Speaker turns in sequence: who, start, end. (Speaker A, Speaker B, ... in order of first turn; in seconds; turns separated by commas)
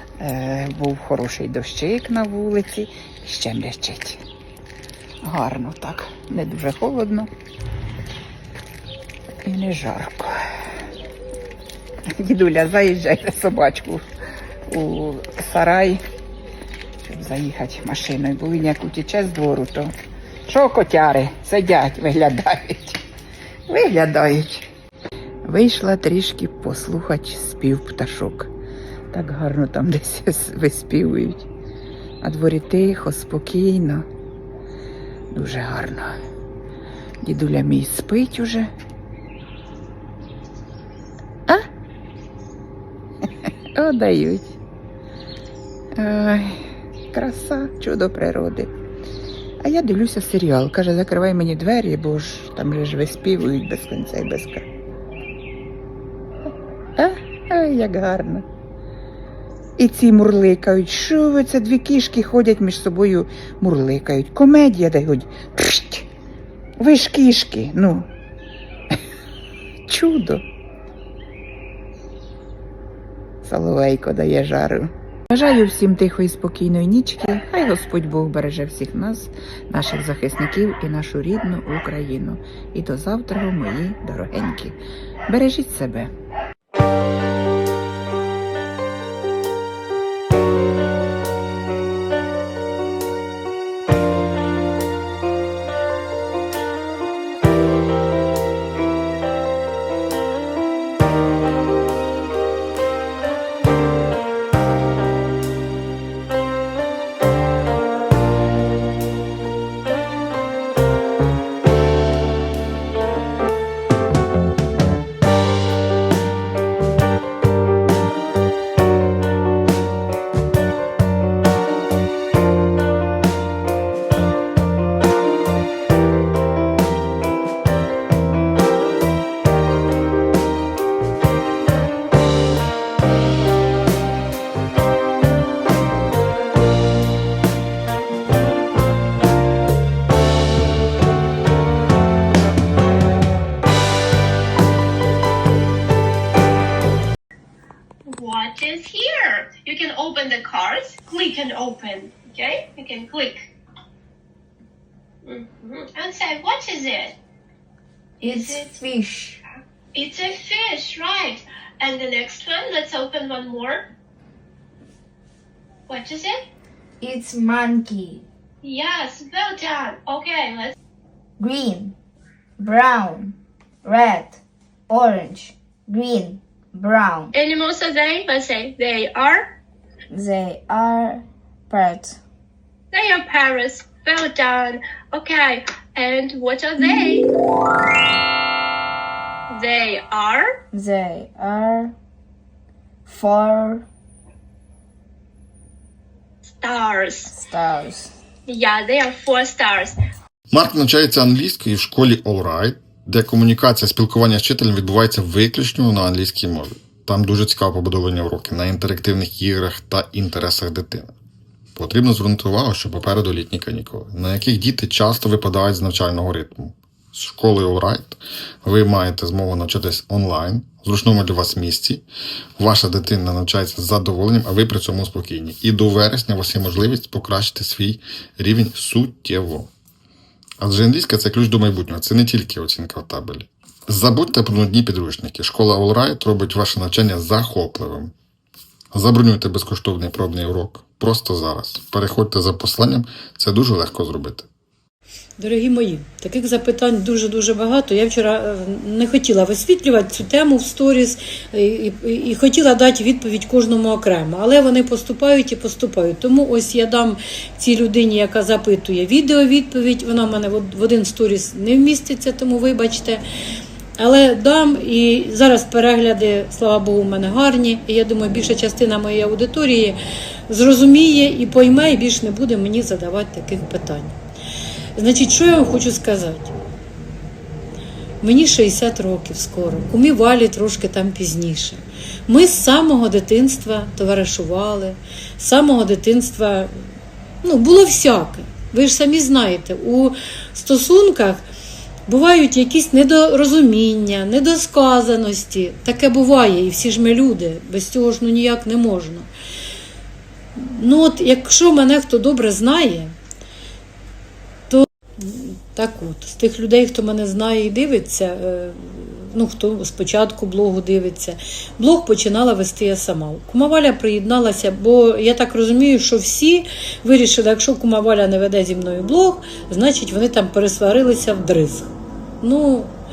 Speaker A: 0.2-4.2, Speaker A: 5.2-7.3, Speaker A: 9.4-10.4, Speaker A: 12.1-14.0, Speaker A: 14.7-16.0, Speaker A: 17.0-19.9, Speaker A: 20.5-23.0, Speaker A: 23.7-24.7, Speaker A: 25.4-28.5, Speaker A: 29.1-31.5, Speaker A: 32.2-34.0, Speaker A: 35.3-36.1, Speaker A: 37.2-38.7, Speaker A: 43.7-44.6, Speaker A: 46.0-48.7, Speaker A: 49.6-54.7, Speaker A: 57.0-58.5, Speaker A: 59.8-66.1, Speaker A: 66.8-68.1, Speaker A: 69.9-70.4, Speaker A: 73.4-84.8, Speaker A: 85.3-86.1, Speaker B: 148.1-153.5, Speaker B: 155.2-157.2, Speaker B: 158.2-158.7, Speaker C: 158.2-159.4, Speaker B: 159.9-163.9, Speaker B: 165.9-166.4, Speaker C: 167.0-168.2, Speaker B: 168.6-170.7, Speaker C: 171.4-171.9, Speaker C: 172.6-177.3, Speaker B: 177.3-179.6, Speaker C: 180.1-182.2, Speaker B: 182.9-187.3, Speaker B: 189.5-190.6, Speaker C: 190.7-191.9, Speaker C: 193.1-193.8, Speaker B: 196.4-197.3, Speaker C: 197.3-198.1, Speaker B: 198.5-200.0, Speaker D: 200.5-211.1, Speaker D: 211.7-222.0, Speaker D: 222.6-229.7, Speaker D: 230.6-238.1, Speaker D: 238.9-244.5, Speaker E: 245.4-263.2, Speaker E: 264.0-274.1, Speaker E: 274.9-276.5, Speaker E: 278.2-286.7, Speaker E: 287.4-291.4, Speaker E: 292.1-299.3, Speaker E: 300.5-303.1, Speaker E: 304.7-322.9